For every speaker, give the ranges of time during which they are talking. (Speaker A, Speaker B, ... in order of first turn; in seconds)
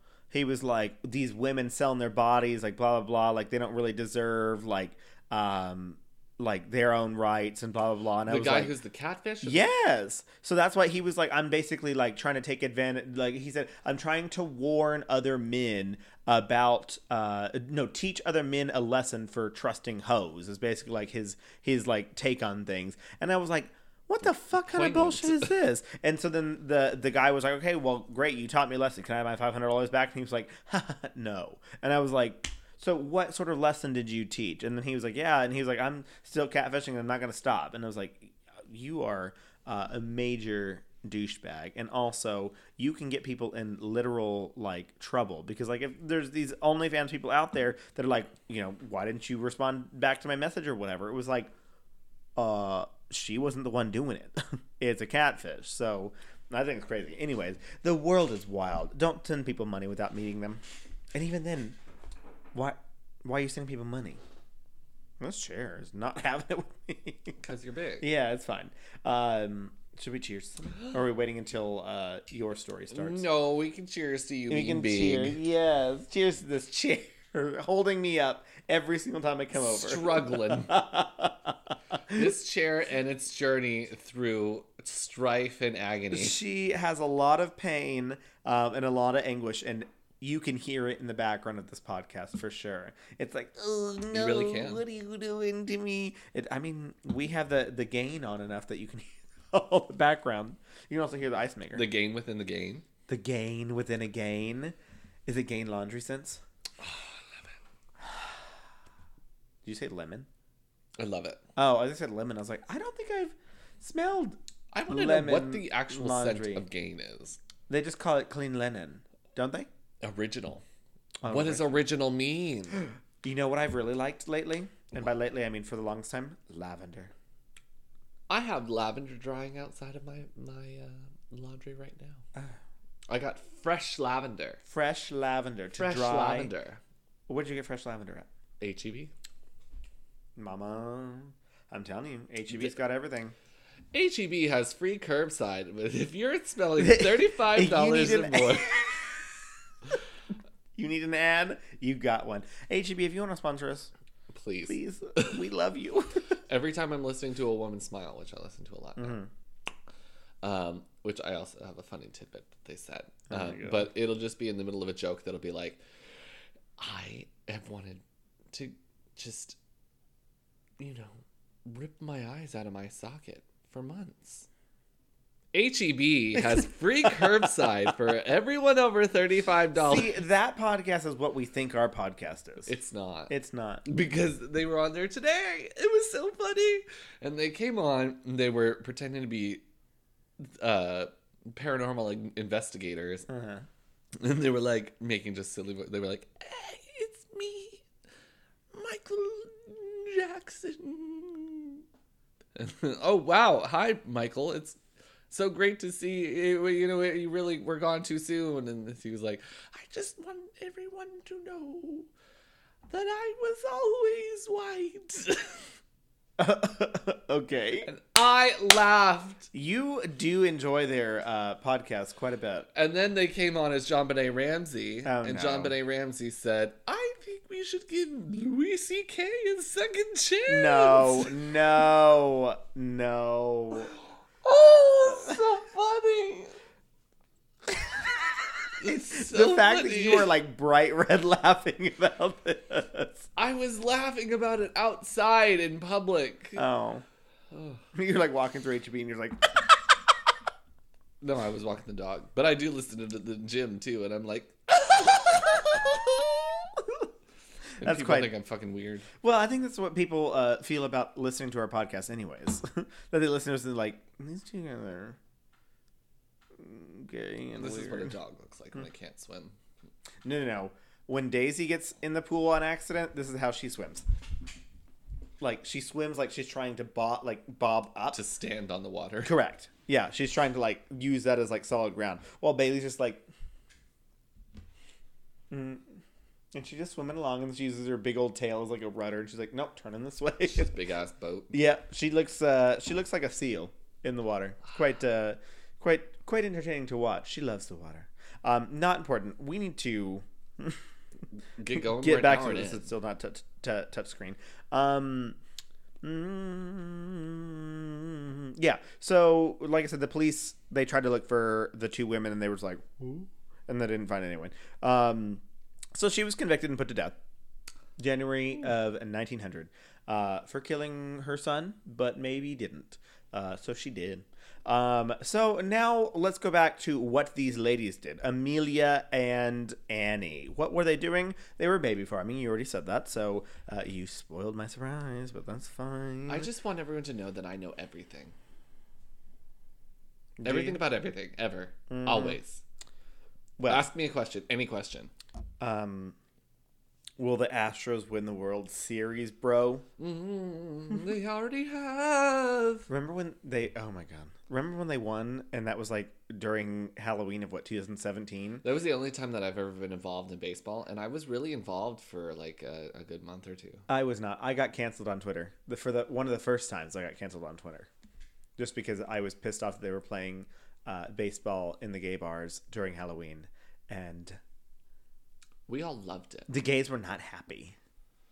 Speaker A: 0.3-8.8, 9.4-51.5, 52.4-60.6, 61.1-61.8, 62.5-64.2, 65.2-67.4, 68.0-73.3, 74.5-82.2, 86.1-101.9, 103.1-104.8, 105.3-106.4, 109.7-110.3, 111.6-114.4, 114.9-116.7, 117.7-119.7, 121.2-121.8, 123.2-127.1, 134.7-136.5, 137.3-138.3, 140.4-143.3, 146.8-149.2, 150.8-153.9, 154.7-156.4, 159.0-159.3, 163.3-163.8, 176.4-177.7, 179.8-182.7, 183.3-183.8, 193.3-193.7, 216.4-217.9, 219.5-222.7, 225.1-225.8, 230.5-233.9, 237.7-238.1, 238.8-243.3, 246.6-247.0, 247.9-250.0, 255.2-257.0, 257.8-258.3, 259.2-265.2, 266.6-268.1, 270.2-274.0, 275.4-278.2, 279.2-283.2, 285.5-286.0, 286.5-290.7, 291.5-300.8, 301.7-305.4, 306.0-315.4, 315.9-317.1, 318.0-336.5, 340.4-340.8, 341.9-342.4, 343.6-343.9, 345.6-346.2, 347.2-349.9, 352.9-358.6, 363.9-367.9, 368.6-374.4, 376.5-377.8
Speaker B: 8.3-9.7, 24.6-25.6, 67.4-68.1, 72.9-75.4, 79.5-80.8, 82.1-86.4, 94.1-94.8, 101.7-102.9, 106.8-107.5, 111.0-111.4, 114.7-117.4, 120.0-120.6, 121.2-122.8, 128.3-132.2, 133.1-134.6, 135.8-136.8, 138.6-139.1, 143.9-148.8, 154.3-155.4, 156.5-159.2, 160.4-165.8, 166.8-169.6, 170.8-174.5, 175.5-180.2, 182.7-183.3, 183.8-189.6, 190.4-193.3, 194.1-197.8, 198.7-201.8, 202.6-204.8, 205.3-212.1, 212.9-215.7, 217.9-219.5, 222.7-231.5, 234.4-236.5, 238.8-240.3, 243.4-246.6, 247.5-247.8, 251.2-255.8, 257.8-259.1, 267.6-269.6, 278.1-279.3, 290.4-291.6, 301.6-302.9, 336.3-338.4, 340.4-342.6, 343.7-345.1, 350.0-352.9, 358.6-363.9, 375.7-376.5